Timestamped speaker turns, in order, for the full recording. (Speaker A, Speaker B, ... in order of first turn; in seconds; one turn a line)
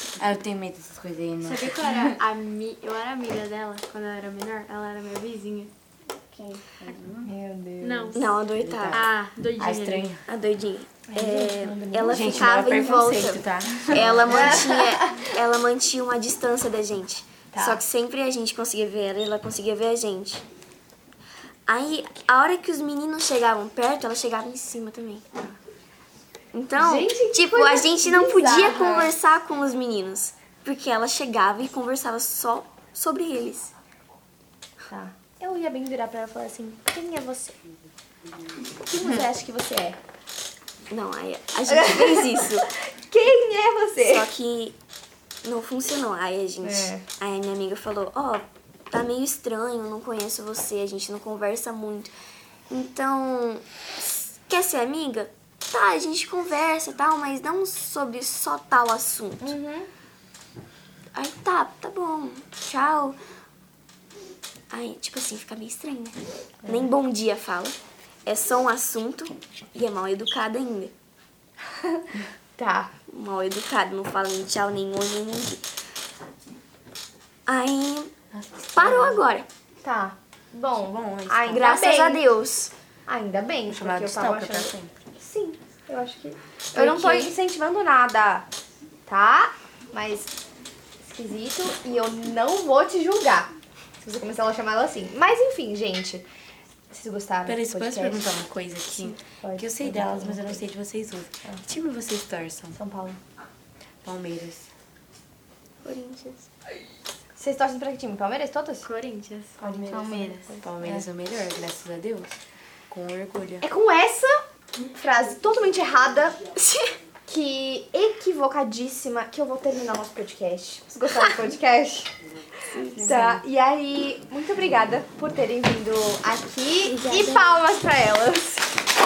Speaker A: 0.2-2.1
Speaker B: 1.4-5.7
Speaker C: 6.3-6.6
Speaker A: 6.8-7.3
Speaker D: 7.2-8.3
Speaker B: 7.8-8.2
Speaker C: 8.1-9.0
Speaker A: 8.6-10.2
Speaker B: 8.9-10.1
Speaker C: 10.2-20.4
Speaker D: 11.1-12.8
Speaker A: 12.1-14.7
Speaker D: 14.1-15.1
Speaker D: 17.5-17.8
Speaker C: 21.7-25.3
Speaker C: 26.5-33.7
Speaker D: 26.8-29.1
Speaker D: 34.9-37.7
Speaker D: 38.8-40.0
Speaker C: 40.9-42.7
Speaker D: 41.7-44.3
Speaker C: 44.0-44.8
Speaker C: 45.4-52.1
Speaker D: 46.6-47.0
Speaker C: 52.7-59.5
Speaker D: 59.4-59.9
Speaker C: 61.1-63.2
Speaker C: 64.7-70.9
Speaker D: 72.5-72.9
Speaker C: 73.1-75.7
Speaker C: 77.5-78.1
Speaker A: 78.3-79.2
Speaker C: 78.7-79.5
Speaker D: 79.8-82.2
Speaker A: 80.8-81.6
Speaker C: 81.5-82.7
Speaker D: 83.0-88.5
Speaker A: 83.7-84.9
Speaker C: 86.7-87.3
Speaker D: 89.1-90.3
Speaker D: 91.0-93.5
Speaker D: 94.0-96.2
Speaker D: 96.9-98.2
Speaker A: 97.5-102.8
Speaker D: 99.4-100.7
Speaker D: 102.7-103.2
Speaker A: 104.0-104.7
Speaker C: 105.8-106.5
Speaker D: 107.4-108.9
Speaker B: 108.8-110.4
Speaker D: 109.6-111.1
Speaker A: 109.9-112.4
Speaker A: 112.9-113.6
Speaker D: 113.6-114.4
Speaker D: 114.9-116.4
Speaker C: 116.6-116.9
Speaker D: 117.3-122.1
Speaker C: 122.7-123.4
Speaker D: 122.9-128.7
Speaker C: 126.9-127.4